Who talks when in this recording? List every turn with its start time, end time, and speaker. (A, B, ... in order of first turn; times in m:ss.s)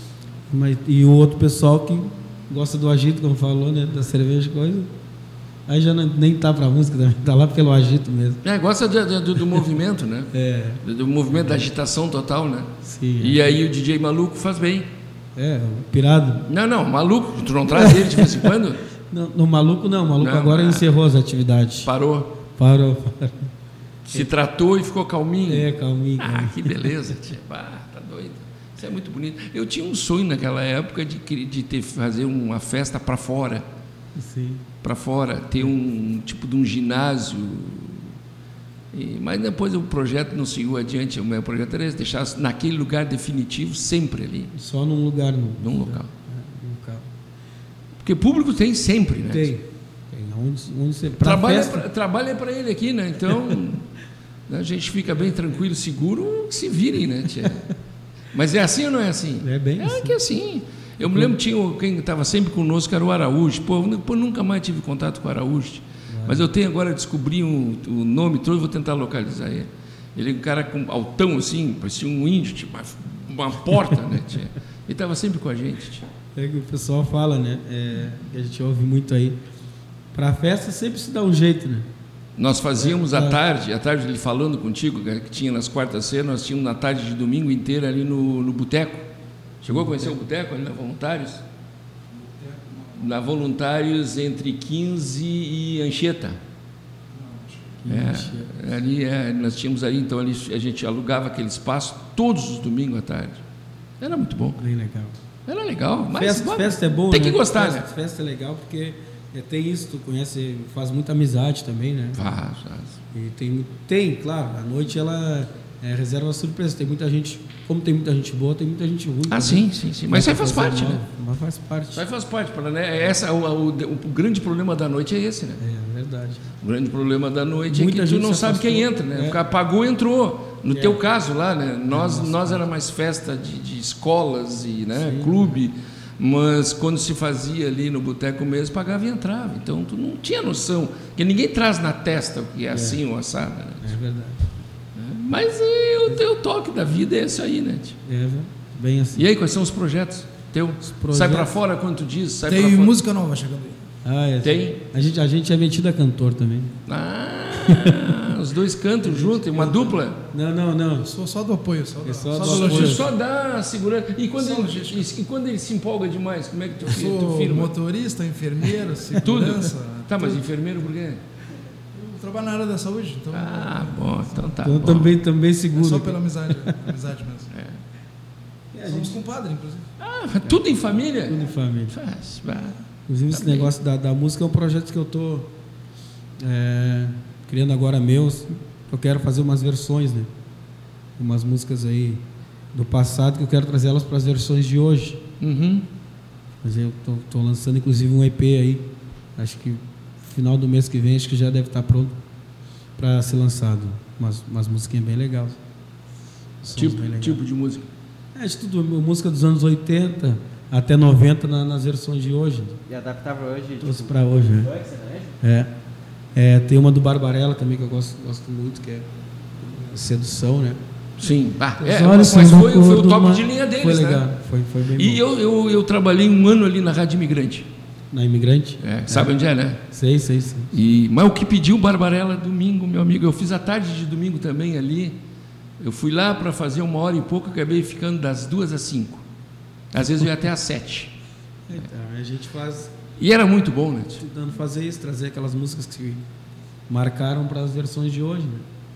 0:00.5-0:04.9 A
0:05.7-0:08.4 A
0:08.4-0:10.3 B
0:10.3-0:11.6 A
0:10.8-0:14.9 B
0:12.8-0:13.6 A
0:15.4-0:16.5 A
0:16.5-0:18.8 B
0:17.7-0:21.9 A
0:20.2-0:20.9 B
0:21.8-0:22.3 B
0:22.5-0:23.5 A
0:24.1-0:25.7 B
0:25.5-0:27.1 A
0:26.2-0:33.6 B
0:34.1-0:34.6 A
0:34.8-0:38.2 B
0:38.9-0:44.5 B
0:44.5-0:47.1 A
0:45.6-0:46.1 B
0:48.0-0:49.5 B
0:49.2-0:51.8 A
0:51.2-0:53.8 B
0:54.5-0:57.6 B
0:58.3-1:16.1 B
0:59.4-1:00.2 A
1:01.0-1:01.3 A
1:06.1-1:06.5 A
1:16.3-1:19.4 A
1:20.1-1:21.9 A
1:22.4-1:29.0 B
1:22.8-1:23.4 A
1:29.6-1:31.4 B
1:29.7-1:30.2 A
1:32.1-1:33.3 C
1:33.0-1:36.4 B
1:37.1-1:37.8 C
1:37.8-1:38.5 A
1:37.9-1:43.4 B
1:44.0-1:44.6 B
1:44.6-1:45.2 A
1:45.4-1:47.8 B
1:46.1-1:52.3 A
1:52.1-1:53.0 B
1:53.1-2:02.0 A
1:59.3-2:01.0 B
2:01.9-2:05.6 B
2:05.6-2:06.6 A
2:06.6-2:23.9 B
2:07.7-2:09.4 A
2:10.7-2:11.0 A
2:11.9-2:12.6 A
2:14.9-2:15.6 A
2:22.7-2:23.0 A
2:23.8-2:24.5 A
2:24.9-2:28.0 B
2:28.0-2:29.3 A
2:29.1-2:32.9 B
2:30.8-2:31.5 A
2:32.4-2:33.8 C
2:34.0-2:36.7 A
2:34.4-2:34.8 B
2:36.9-2:40.2 B
2:37.5-2:38.2 A
2:39.0-2:41.1 A
2:41.0-2:43.1 C
2:42.0-2:43.1 A
2:42.4-2:47.7 B
2:44.4-2:45.2 C
2:46.8-2:50.4 C
2:49.2-2:51.2 B
2:51.9-2:54.8 C
2:53.3-2:55.1 B
2:54.6-2:56.8 A
2:55.7-2:57.5 C
2:57.5-2:57.8 B
2:58.7-2:59.2 A
2:58.8-2:59.9 C
3:00.0-3:01.4 B
3:00.4-3:02.0 A
3:01.9-3:02.8 B
3:03.1-3:05.5 A
3:03.3-3:03.7 B
3:06.4-3:10.3 A
3:11.2-3:15.2 A
3:15.4-3:15.9 B
3:16.6-3:22.2 A
3:23.0-3:25.6 A
3:26.6-3:27.4 A
3:26.7-3:27.9 B
3:28.3-3:32.8 A
3:32.9-3:35.4 D
3:33.8-3:34.7 A
3:35.4-3:35.7 A
3:36.3-3:39.1 A
3:39.6-3:40.8 A
3:41.2-3:44.2 B
3:41.8-3:45.2 A
3:45.0-3:47.7 B
3:48.1-3:49.3 A
3:48.8-3:49.8 B
3:49.8-3:50.7 A
3:50.7-3:55.2 B
3:55.8-3:59.2 B
3:59.9-4:01.1 B
4:01.7-4:02.9 A
4:03.2-4:04.2 B
4:04.2-4:06.2 A
4:06.9-4:08.7 A